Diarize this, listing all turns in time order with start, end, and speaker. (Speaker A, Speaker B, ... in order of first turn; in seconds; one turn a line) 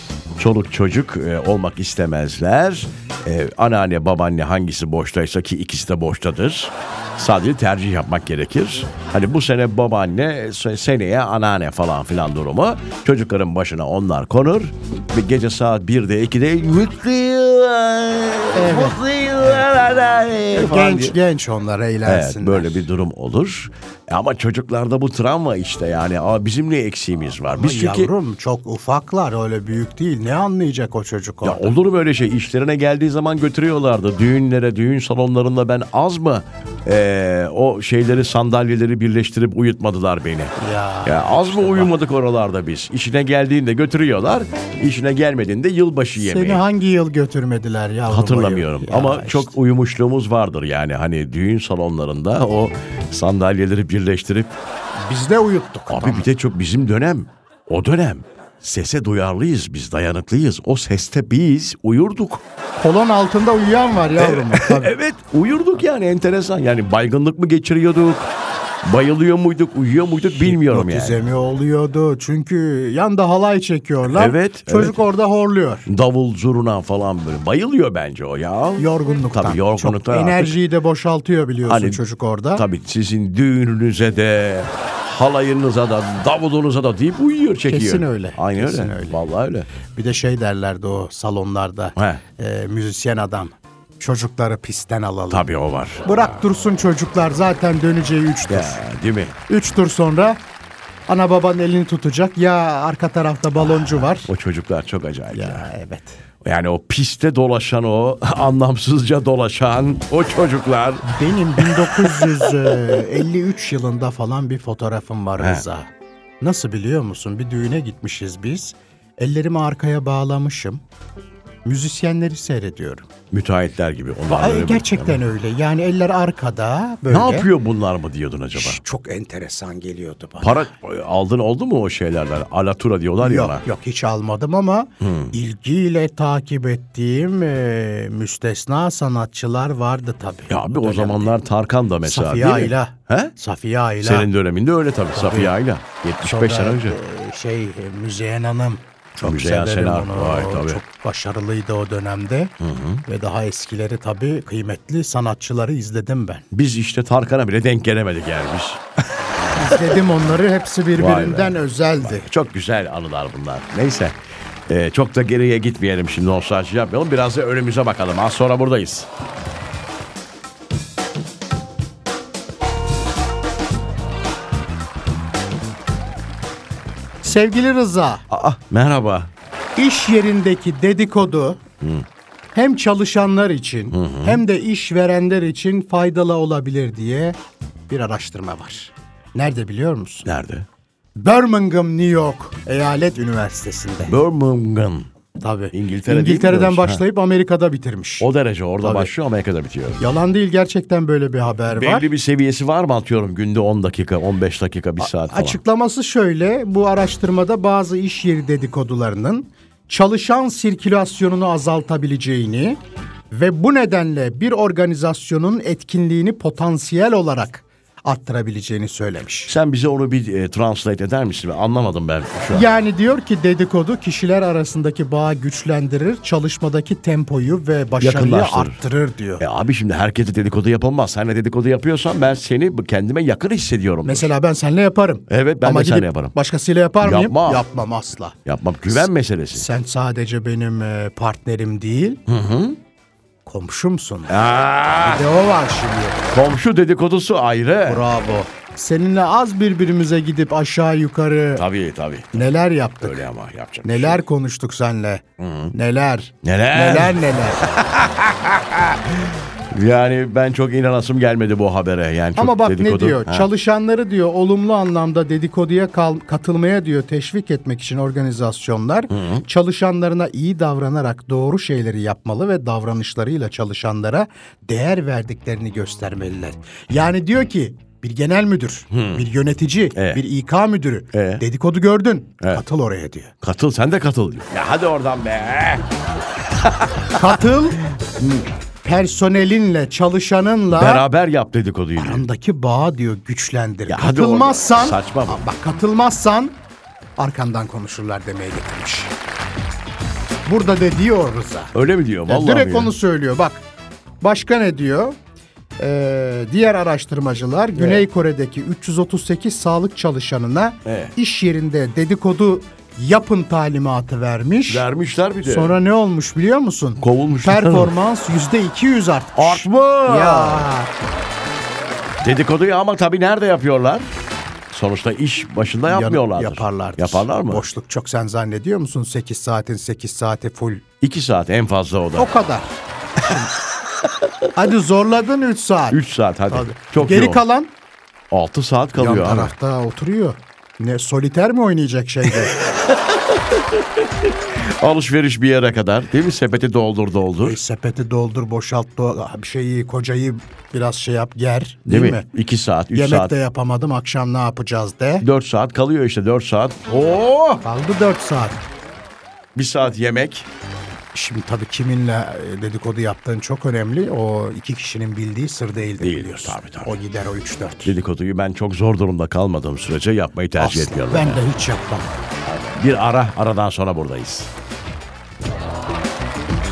Speaker A: 0.4-21.2
Speaker B: 18.5-19.0
Speaker B: 20.5-22.9
Speaker A: 22.1-28.1
Speaker B: 27.5-31.8
Speaker A: 31.4-46.6
Speaker B: 40.6-41.9
Speaker B: 46.2-49.5
Speaker A: 48.1-54.6
Speaker B: 55.0-56.3
Speaker A: 55.9-62.4
Speaker B: 62.8-65.0
Speaker A: 64.2-68.3
Speaker A: 68.8-71.2
Speaker B: 70.3-75.9
Speaker A: 74.1-75.0
Speaker A: 75.9-80.6
Speaker B: 78.8-82.7
Speaker A: 81.6-82.0
Speaker A: 82.5-89.7
Speaker B: 87.7-89.2
Speaker B: 90.0-95.5
Speaker A: 92.0-92.2
Speaker A: 95.3-96.3
Speaker B: 96.0-98.8
Speaker A: 98.5-99.4
Speaker B: 99.5-100.4
Speaker B: 101.1-104.3
Speaker A: 103.6-105.7
Speaker B: 105.3-106.2
Speaker A: 106.4-111.1
Speaker B: 111.0-115.9
Speaker A: 111.6-113.2
Speaker A: 115.4-115.6
Speaker B: 116.4-120.8
Speaker B: 121.6-123.1
Speaker A: 123.3-125.2
Speaker B: 124.3-127.5
Speaker A: 127.1-128.8
Speaker B: 128.6-130.7
Speaker A: 130.4-133.6
Speaker B: 133.2-141.3
Speaker A: 135.0-135.3
Speaker A: 140.5-143.3
Speaker B: 142.0-144.3
Speaker A: 144.0-147.0
Speaker B: 145.1-145.6
Speaker B: 146.2-152.5
Speaker A: 149.2-150.8
Speaker A: 152.6-153.0
Speaker B: 153.1-156.4
Speaker A: 156.5-158.8
Speaker A: 159.6-160.0
Speaker B: 159.6-162.3
Speaker A: 160.9-164.2
Speaker A: 164.7-169.1
Speaker B: 177.2-178.2
Speaker A: 178.3-179.3
Speaker B: 179.8-181.6
Speaker B: 182.5-187.4
Speaker A: 183.9-184.4
Speaker B: 187.9-190.3
Speaker A: 190.2-190.7
Speaker B: 191.2-194.2
Speaker A: 194.1-195.1
Speaker B: 195.4-198.3
Speaker A: 195.7-197.0
Speaker A: 198.2-200.0
Speaker B: 198.8-199.1
Speaker B: 200.0-202.1
Speaker A: 201.7-205.6
Speaker B: 205.0-212.8
Speaker B: 213.3-219.5
Speaker A: 219.5-222.7
Speaker B: 222.5-229.4
Speaker A: 228.0-228.8
Speaker A: 229.4-234.3
Speaker B: 234.0-238.4
Speaker A: 235.3-236.3
Speaker A: 237.0-237.6
Speaker A: 238.5-239.7
Speaker B: 238.9-242.2
Speaker A: 242.3-242.8
Speaker B: 243.5-244.4
Speaker A: 244.3-245.3
Speaker B: 245.0-246.2
Speaker A: 246.3-248.1
Speaker B: 247.8-251.7
Speaker A: 251.6-254.2
Speaker B: 252.3-253.3
Speaker B: 253.8-257.6
Speaker A: 255.4-255.7
Speaker A: 256.4-263.5
Speaker B: 262.4-283.3
Speaker A: 269.1-269.4
Speaker A: 278.9-279.3
Speaker A: 279.9-280.2
Speaker A: 281.1-281.4
Speaker A: 283.4-285.9
Speaker A: 286.6-287.4
Speaker B: 287.1-291.1
Speaker A: 290.7-292.2
Speaker B: 292.0-296.6
Speaker A: 293.9-295.5
Speaker B: 297.2-299.1
Speaker B: 300.5-301.7
Speaker A: 301.7-302.9
Speaker B: 302.3-303.6
Speaker B: 304.2-305.2
Speaker B: 305.8-314.9
Speaker A: 307.8-308.1
Speaker A: 310.9-311.1
Speaker A: 314.7-315.8
Speaker B: 315.4-320.9
Speaker A: 317.0-317.9
Speaker A: 319.4-320.7
Speaker A: 322.2-324.1
Speaker A: 324.7-327.7
Speaker B: 325.9-330.8
Speaker A: 331.0-332.3
Speaker B: 332.2-333.4
Speaker A: 333.2-333.5
Speaker A: 334.0-334.4
Speaker B: 334.6-337.7
Speaker A: 335.9-337.4
Speaker A: 338.3-339.5
Speaker B: 339.0-342.6
Speaker A: 342.2-347.6
Speaker B: 347.4-352.3
Speaker A: 351.9-353.4
Speaker B: 352.9-355.2
Speaker A: 355.2-357.6
Speaker B: 357.6-358.6
Speaker A: 359.6-360.5
Speaker B: 361.1-368.0
Speaker A: 366.0-366.9
Speaker A: 367.9-371.4
Speaker B: 370.6-372.2
Speaker A: 372.4-374.5